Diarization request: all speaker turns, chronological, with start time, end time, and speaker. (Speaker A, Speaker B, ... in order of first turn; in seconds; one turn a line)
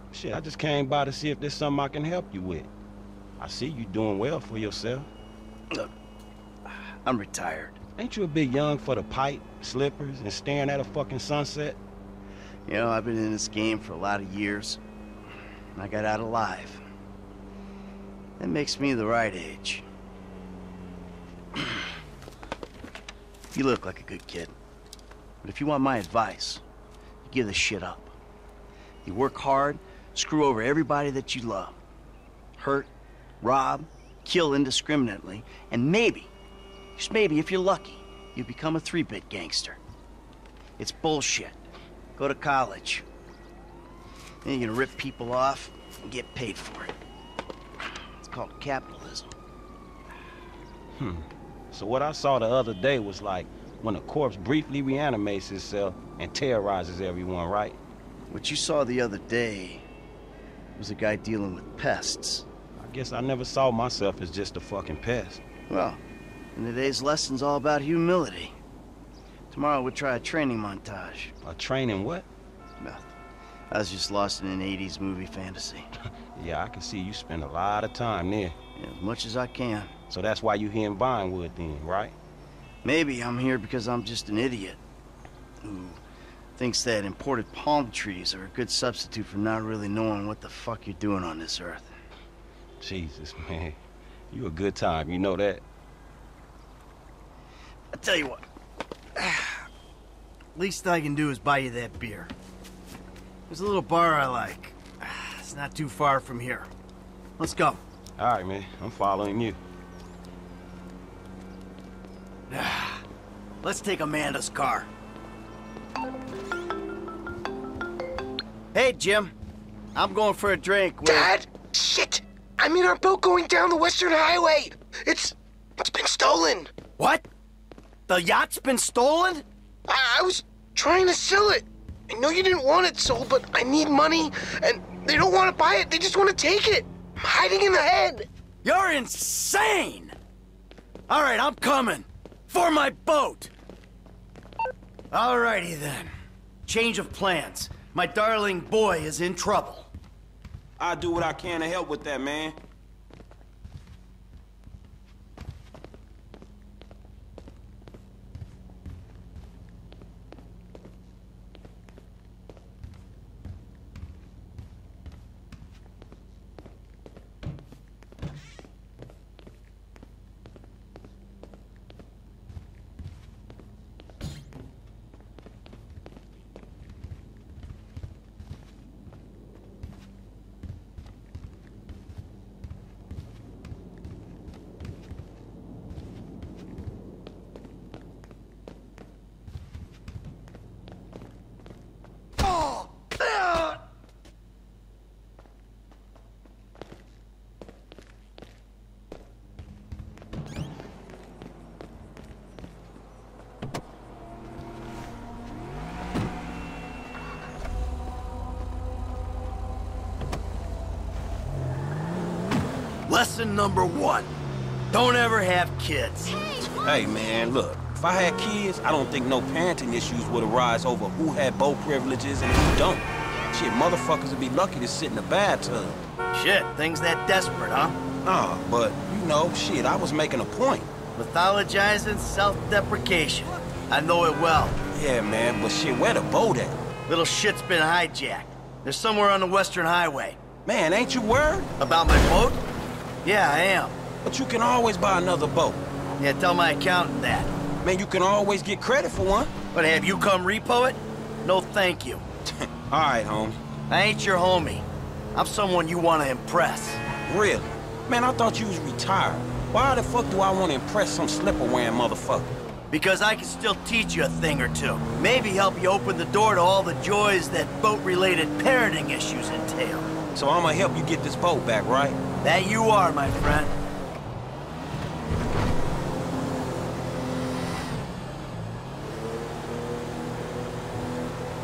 Speaker A: 0.1-2.7
Speaker A: 3.4-5.1
Speaker B: 7.0-7.8
Speaker A: 8.0-11.8
Speaker B: 12.7-14.8
Speaker B: 15.8-16.8
Speaker B: 18.4-19.9
Speaker B: 21.6-21.9
Speaker B: 23.5-24.5
Speaker B: 25.4-26.6
Speaker B: 27.2-28.1
Speaker B: 29.1-31.8
Speaker B: 32.6-36.3
Speaker B: 37.0-39.8
Speaker B: 40.8-41.6
Speaker B: 42.2-43.0
Speaker B: 44.5-46.9
Speaker B: 48.2-49.4
Speaker A: 51.0-57.8
Speaker B: 58.3-59.9
Speaker B: 60.8-62.5
Speaker A: 62.8-65.4
Speaker B: 65.7-66.0
Speaker B: 66.5-68.6
Speaker B: 69.5-71.3
Speaker A: 71.4-72.3
Speaker B: 72.8-73.2
Speaker B: 73.7-75.9
Speaker A: 76.3-78.6
Speaker B: 78.8-79.9
Speaker A: 80.1-82.2
Speaker B: 82.8-84.8
Speaker B: 85.6-86.0
Speaker B: 86.6-91.9
Speaker A: 92.8-93.8
Speaker A: 94.3-95.6
Speaker B: 97.9-98.4
Speaker B: 99.2-99.7
Speaker B: 100.5-102.3
Speaker B: 103.5-106.7
Speaker B: 107.4-107.8
Speaker A: 108.2-109.6
Speaker B: 112.5-113.0
Speaker B: 113.6-114.9
Speaker B: 118.7-119.3
Speaker B: 120.0-121.3
Speaker C: 121.1-126.7
Speaker B: 127.0-127.2
Speaker B: 128.1-129.5
Speaker C: 129.9-138.3
Speaker B: 138.6-140.2
Speaker B: 141.1-143.5
Speaker B: 145.1-146.1
Speaker B: 146.7-149.9
Speaker A: 150.8-152.6
Speaker B: 213.1-214.3
Speaker B: 214.9-216.4
Speaker A: 216.7-226.0
Speaker B: 226.3-228.0
Speaker A: 228.2-230.9
Speaker B: 231.2-234.8
Speaker A: 234.9-236.8
Speaker B: 237.1-240.4
Speaker A: 240.7-241.7
Speaker B: 241.8-242.6
Speaker B: 243.2-244.0
Speaker A: 244.2-245.8
Speaker B: 246.2-247.5
Speaker A: 247.8-249.5
Speaker B: 249.7-252.2
Speaker A: 252.5-253.6
Speaker B: 253.9-257.0
Speaker A: 257.3-262.6
Speaker B: 262.9-270.1
Speaker A: 270.4-272.2
Speaker B: 272.4-273.8